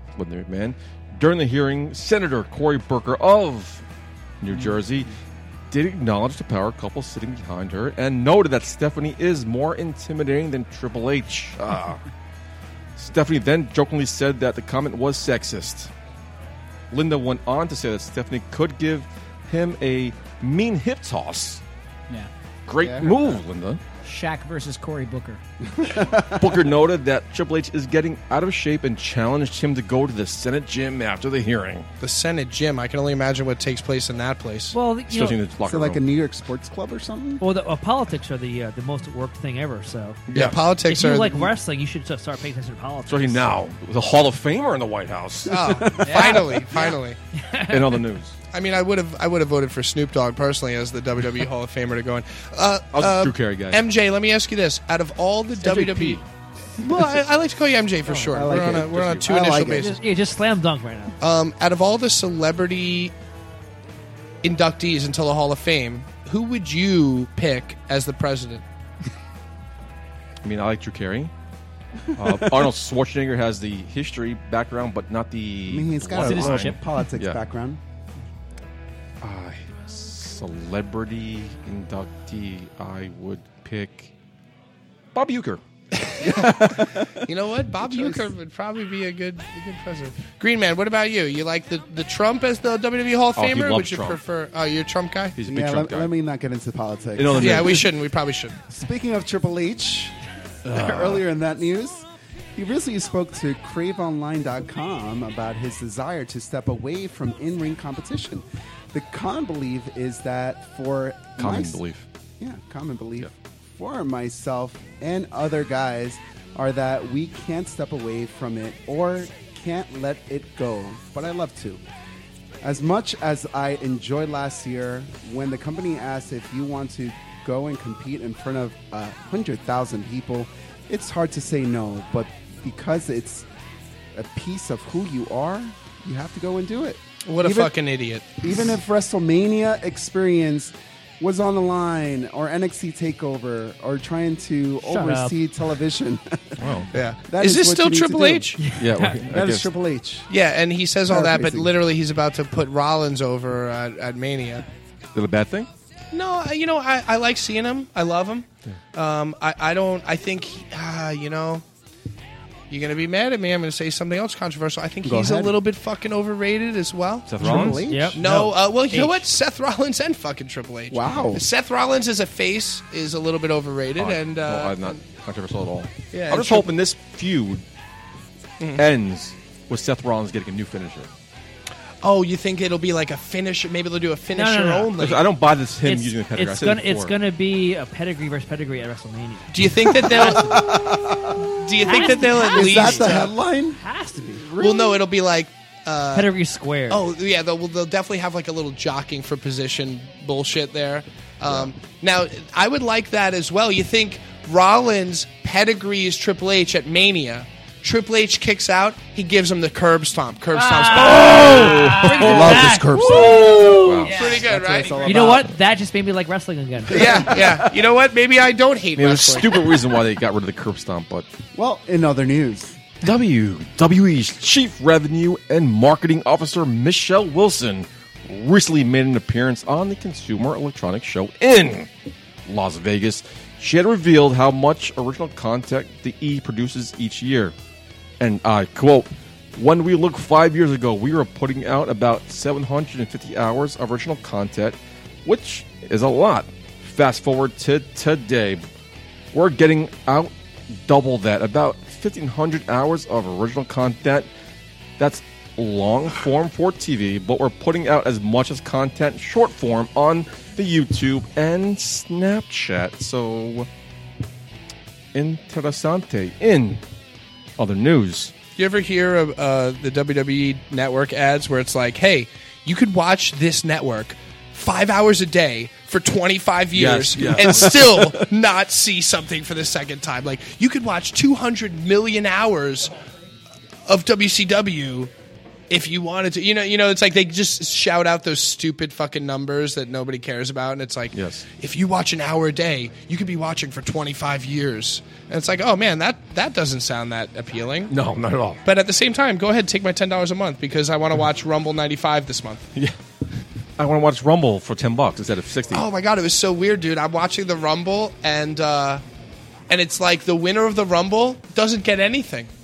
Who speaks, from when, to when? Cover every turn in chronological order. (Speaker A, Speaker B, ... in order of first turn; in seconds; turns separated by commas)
Speaker A: 0.1-3.8, Speaker A: 4.4-5.1, Speaker A: 5.7-12.0, Speaker A: 12.9-15.9, Speaker A: 16.9-21.6, Speaker A: 22.6-23.8, Speaker B: 22.8-23.4, Speaker C: 24.0-25.4, Speaker B: 25.7-26.5, Speaker A: 26.4-31.9, Speaker D: 32.0-34.8, Speaker E: 34.7-35.4, Speaker A: 35.1-36.0, Speaker B: 35.6-37.4, Speaker E: 37.4-40.2, Speaker A: 40.3-40.6, Speaker D: 40.3-41.5, Speaker E: 40.8-43.5, Speaker A: 43.0-45.5, Speaker D: 45.5-47.2, Speaker B: 45.5-46.6, Speaker C: 46.0-46.4, Speaker E: 47.3-48.1, Speaker A: 47.7-48.4, Speaker D: 48.5-56.2, Speaker A: 52.9-53.9, Speaker A: 55.6-56.2, Speaker D: 56.8-60.0, Speaker B: 58.3-60.0, Speaker A: 58.4-59.3, Speaker E: 59.4-61.1, Speaker D: 61.2-63.1, Speaker D: 64.4-68.6, Speaker A: 70.4-71.3, Speaker A: 72.2-77.4, Speaker B: 75.7-77.8, Speaker C: 76.1-76.8, Speaker A: 79.2-84.1, Speaker A: 85.1-85.6, Speaker D: 86.2-86.7, Speaker D: 87.3-95.3, Speaker B: 87.8-88.2, Speaker A: 93.3-94.2, Speaker A: 95.3-96.1, Speaker B: 95.5-97.8, Speaker A: 97.2-97.9, Speaker D: 97.3-98.5, Speaker B: 98.7-100.1, Speaker A: 100.7-101.2, Speaker B: 100.7-111.8, Speaker A: 111.4-112.0, Speaker B: 112.4-121.8, Speaker B: 122.6-133.5, Speaker B: 134.1-137.7, Speaker D: 137.2-138.2, Speaker B: 138.4-146.6, Speaker E: 144.8-145.4, Speaker A: 146.6-146.9, Speaker D: 146.9-148.6, Speaker B: 147.3-148.5, Speaker E: 148.6-149.2, Speaker A: 148.8-149.7, Speaker B: 149.2-150.3, Speaker D: 150.3-154.6, Speaker B: 151.1-151.7, Speaker A: 155.1-155.7, Speaker D: 156.1-161.6, Speaker D: 162.7-175.0, Speaker B: 165.0-165.6, Speaker A: 167.3-167.9, Speaker B: 167.4-168.2, Speaker E: 167.4-169.2, Speaker B: 170.9-171.4, Speaker A: 174.0-177.6, Speaker D: 176.1-176.7, Speaker D: 178.6-178.9, Speaker A: 178.8-181.1, Speaker D: 182.0-185.2, Speaker E: 184.3-184.9, Speaker A: 185.0-187.2, Speaker E: 185.8-189.5, Speaker D: 189.5-190.6, Speaker E: 190.0-190.7, Speaker B: 190.0-191.4, Speaker D: 191.6-193.3, Speaker E: 191.8-194.7, Speaker B: 192.0-193.8, Speaker D: 194.6-196.3, Speaker E: 196.1-197.0, Speaker D: 196.9-211.8, Speaker C: 210.6-212.3, Speaker E: 210.8-214.1, Speaker A: 211.2-214.2, Speaker B: 212.3-213.2, Speaker C: 213.9-215.2, Speaker D: 214.1-215.2, Speaker B: 214.2-215.5, Speaker E: 215.0-217.3, Speaker D: 216.9-219.6, Speaker B: 216.9-217.7, Speaker A: 218.9-221.3, Speaker B: 221.5-222.8, Speaker A: 223.0-231.9, Speaker A: 232.4-237.5, Speaker A: 238.2-248.7, Speaker A: 249.3-250.3, Speaker A: 250.8-254.3, Speaker A: 255.0-263.7, Speaker A: 265.1-266.8, Speaker A: 267.6-268.3, Speaker D: 268.6-282.9, Speaker A: 276.7-278.3, Speaker D: 283.9-285.1, Speaker D: 285.7-297.9, Speaker A: 291.1-291.4, Speaker A: 297.9-298.6, Speaker D: 298.6-302.7, Speaker A: 303.8-305.9, Speaker D: 305.7-309.0, Speaker D: 309.7-312.5